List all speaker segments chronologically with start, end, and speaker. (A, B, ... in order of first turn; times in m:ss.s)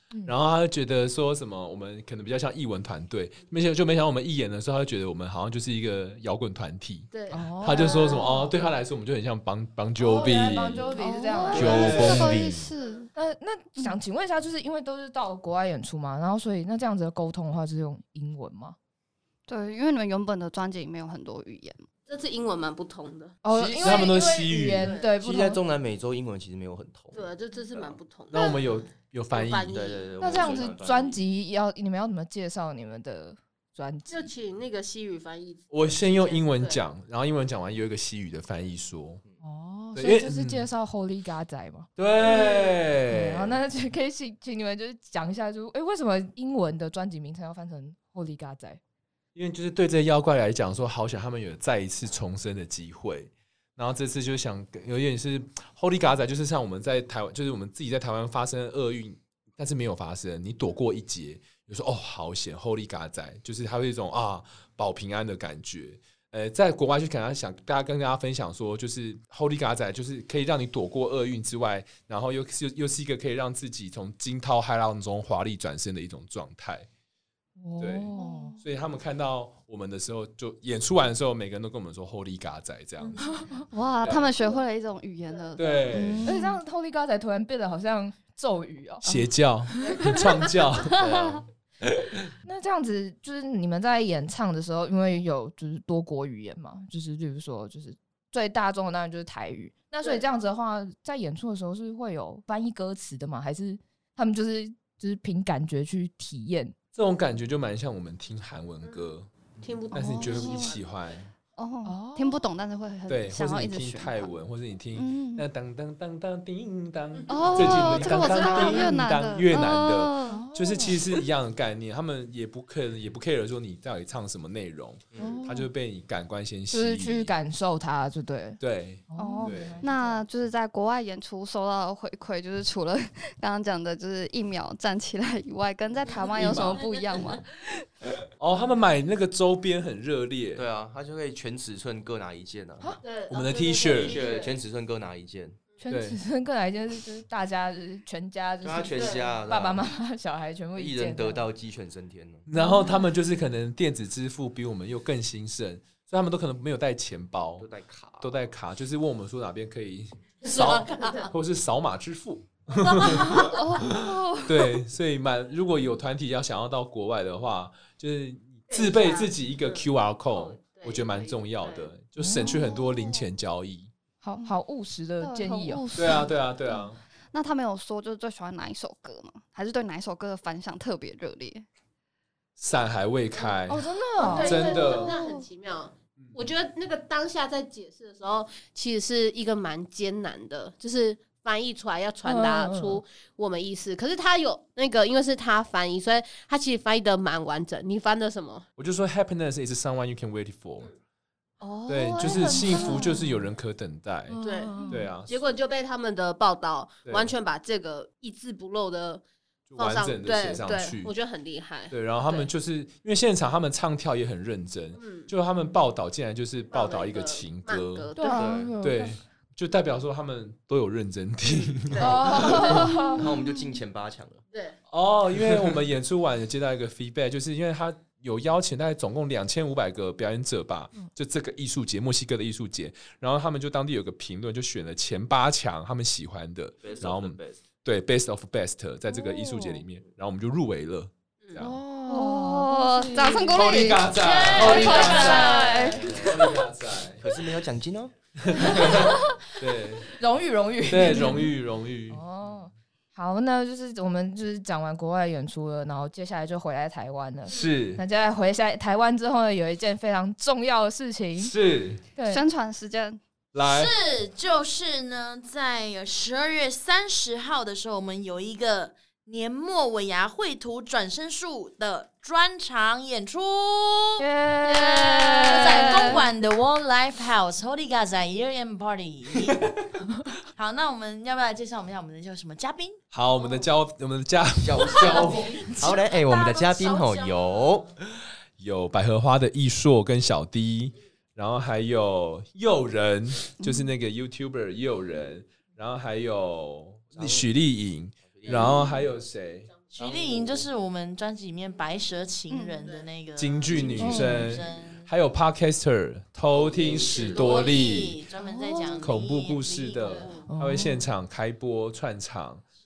0:00.2-0:10.9 A
0:07.1-0:08.0 B
0:07.3-0:08.3 C
0:07.7-0:08.5 D
0:10.0-0:12.3 C
0:10.9-0:13.1 D
0:11.5-0:12.6 A
0:11.6-0:12.5 E
0:12.8-0:13.1 B
0:13.1-0:18.8 C
0:19.5-0:21.8 D
0:22.1-0:23.4 B
0:23.4-0:25.6 C
0:23.5-0:24.2 E
0:23.8-0:24.9 A
0:24.8-0:25.1 B
0:25.0-0:28.0 E
0:27.1-0:28.6 B
0:28.3-0:29.8 A
0:29.3-0:30.7 B
0:29.7-0:31.2 E
0:30.2-0:34.3 C
0:34.1-0:36.8 B
0:35.7-0:39.2 A
0:39.4-0:42.4 C
0:39.9-0:40.6 A
0:42.0-0:43.6 A
0:42.3-0:42.7 D
0:43.1-0:48.8 C
0:49.4-1:16.9 A
1:17.6-1:18.6 C
1:17.8-1:23.3 A
1:18.2-1:18.6 D
1:23.2-1:23.6 C
1:23.7-1:26.6 D
1:24.0-1:24.3 A
1:25.6-1:26.4 A
1:26.2-1:29.0 C
1:29.0-1:31.0 A
1:30.9-1:31.4 E
1:31.8-1:32.3 A
1:32.4-1:46.8 C
1:46.9-1:49.3 A
1:48.8-1:50.9 B
1:49.9-1:50.7 D
1:49.9-1:51.3 A
1:51.6-1:54.3 D
1:51.8-1:52.5 C
1:53.1-2:07.3 A
1:54.9-1:55.5 D
1:57.2-1:58.9 B
1:57.3-2:00.5 D
2:00.3-2:01.0 C
2:05.1-2:05.4 E
2:05.2-2:05.7 C
2:06.7-2:08.6 C
2:08.6-2:09.8 A
2:09.1-2:10.2 C
2:09.1-2:17.7 D
2:16.3-2:16.9 A
2:18.4-2:20.6 A
2:20.6-2:23.0 E
2:23.0-2:24.6 B
2:23.3-2:24.3 A
2:24.0-2:25.6 E
2:25.8-2:31.5 C
2:25.9-2:26.2 A
2:28.6-2:29.9 E
2:28.9-2:29.4 B
2:30.8-2:32.4 E
2:32.4-2:37.7 A
2:32.5-2:33.0 C
2:37.6-2:38.5 E
2:38.2-2:53.9 A
2:40.4-2:41.3 F
2:40.5-2:41.3 B
2:42.8-2:43.3 B
2:43.2-2:44.8 D
2:48.7-2:51.9 B
2:52.2-2:52.7 C
2:52.4-2:53.3 D
2:54.2-2:55.9 C
2:55.2-3:01.6 D
2:55.9-2:57.0 A
3:02.6-3:05.1 A
3:03.7-3:04.7 C
3:04.2-3:05.5 D
3:04.2-3:18.6 B
3:12.2-3:13.0 C
3:18.8-3:20.9 A
3:21.6-3:23.4 D
3:21.9-3:24.4 A
3:22.2-3:23.3 C
3:24.3-3:25.1 C
3:24.4-3:29.2 B
3:24.8-3:25.0 D
3:24.9-3:25.4 A
3:27.0-3:27.3 A
3:29.7-3:31.1 A
3:29.8-3:32.5 B
3:31.9-3:38.1 A
3:35.0-3:35.3 B
3:36.7-3:38.7 B
3:38.2-3:39.2 C
3:38.3-3:38.8 E
3:38.8-3:43.0 A
3:41.6-3:42.9 B
3:42.0-3:43.3 C
3:43.2-3:44.4 E
3:44.5-3:44.8 B
3:44.9-4:01.8 A
3:56.8-3:57.6 E
3:59.1-3:59.8 C
4:01.6-4:04.0 C
4:02.1-4:06.2 D
4:03.5-4:07.2 A
4:04.1-4:05.9 F
4:04.6-4:06.1 C
4:05.2-4:05.7 B
4:05.9-4:06.5 E
4:07.2-4:08.1 E
4:08.4-4:10.1 A
4:08.6-4:09.2 C
4:10.1-4:11.5 C
4:10.9-4:12.6 A
4:12.1-4:21.5 C
4:17.4-4:18.0 A
4:21.4-4:22.1 A
4:22.1-4:22.4 C
4:22.2-4:23.2 D
4:23.5-4:23.9 A
4:23.6-4:34.2 F
4:34.2-4:36.2 C
4:34.7-4:36.2 B
4:35.4-4:39.6 F
4:39.4-4:39.7 A
4:40.5-4:43.0 F
4:43.1-4:45.7 A
4:44.6-4:47.9 E
4:44.9-4:47.9 F
4:48.6-4:59.7 A
4:53.6-4:53.9 D
4:57.1-4:57.5 E
4:58.2-4:59.1 E
4:58.4-4:58.8 B
4:59.9-5:05.1 F
5:00.0-5:00.7 E
5:02.5-5:02.9 D
5:03.4-5:08.2 A
5:04.0-5:04.5 C
5:06.5-5:07.4 E
5:06.8-5:10.4 F
5:07.1-5:07.7 B
5:08.4-5:08.9 D
5:08.9-5:12.6 A
5:10.1-5:10.3 B
5:10.5-5:11.1 C